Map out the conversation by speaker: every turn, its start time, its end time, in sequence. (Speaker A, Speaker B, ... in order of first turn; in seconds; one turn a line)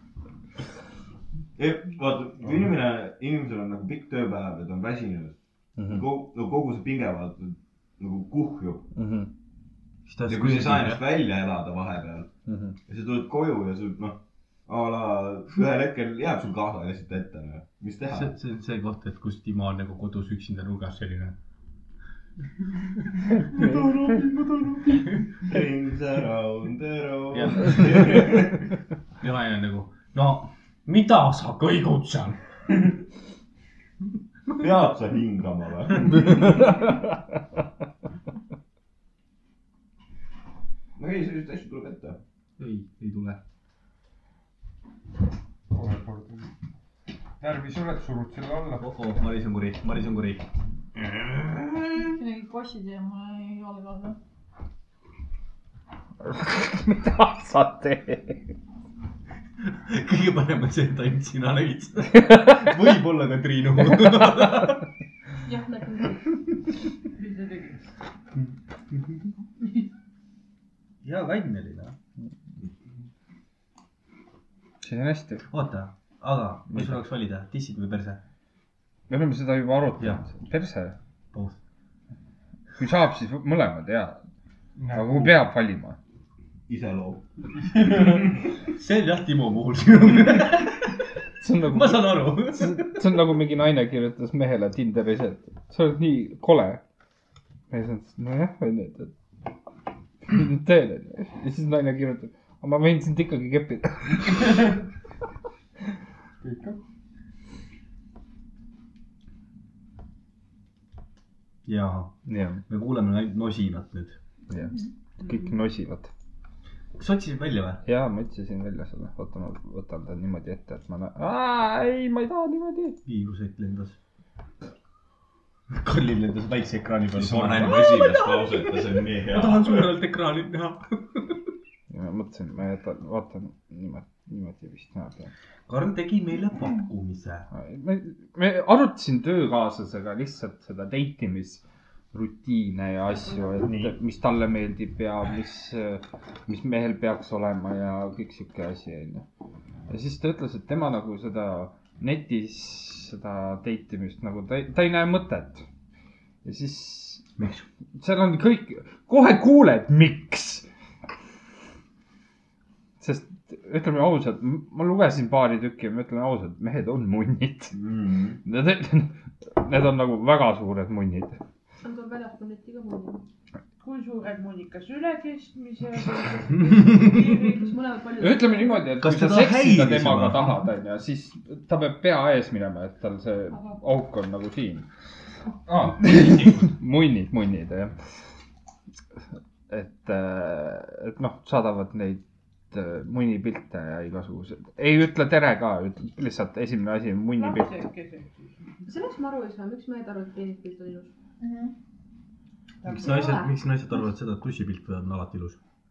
Speaker A: 1.6-5.3
Speaker B: 5.8-6.0
Speaker A: 5.9-8.9
Speaker B: 8.9-9.3
Speaker C: 10.1-11.0
Speaker A: 10.3-12.3
Speaker B: 12.4-12.8
Speaker A: 12.8-18.3
Speaker C: 18.1-21.4
Speaker C: 23.4-25.4
Speaker B: 23.5-23.9
Speaker A: 25.4-28.6
Speaker C: 27.3-28.4
Speaker C: 29.2-32.4
Speaker A: 34.6-36.9
Speaker A: 41.0-42.2
Speaker C: 42.6-43.4
Speaker D: 45.7-46.5
Speaker D: 47.4-48.9
Speaker C: 48.8-52.0
Speaker E: 52.0-54.2
Speaker B: 56.2-58.4
Speaker C: 59.6-64.8
Speaker F: 65.4-66.4
Speaker G: 67.1-67.9
Speaker C: 71.0-72.0
Speaker B: 74.8-75.5
Speaker C: 75.5-78.2
Speaker B: 76.7-77.0
Speaker B: 79.1-81.0
Speaker C: 80.0-80.2
Speaker B: 82.8-84.2
Speaker D: 84.8-85.3
Speaker B: 84.9-86.0
Speaker A: 86.7-87.2
Speaker D: 87.5-88.3
Speaker C: 88.7-91.0
Speaker B: 91.4-96.8
Speaker C: 91.7-93.0
Speaker B: 97.7-99.1
Speaker B: 100.2-104.7
Speaker D: 106.4-106.8
Speaker C: 111.6-114.2
Speaker B: 112.2-112.6
Speaker B: 114.5-116.1
Speaker C: 117.0-117.8
Speaker B: 117.8-123.0
Speaker C: 123.0-124.0
Speaker C: 125.7-128.1
Speaker A: 127.1-129.9
Speaker C: 129.1-131.4
Speaker B: 131.9-135.3
Speaker C: 135.7-137.5
Speaker B: 137.5-149.2
Speaker B: 149.9-155.6
Speaker B: 156.4-157.2
Speaker C: 157.4-157.6
Speaker B: 158.0-160.7
Speaker B: 163.0-167.7
Speaker A: 167.7-168.4
Speaker B: 168.4-171.4
Speaker F: 171.8-173.2
Speaker G: 173.8-177.7
Speaker F: 176.6-178.9
Speaker B: 178.2-184.9
Speaker C: 179.0-180.6
Speaker D: 185.7-186.0
Speaker B: 186.0-188.0
Speaker B: 189.7-197.8
Speaker G: 197.3-198.6
Speaker F: 198.8-201.1
Speaker E: 201.4-201.7
Speaker F: 202.8-203.5
Speaker C: 202.8-205.6
Speaker G: 202.9-203.4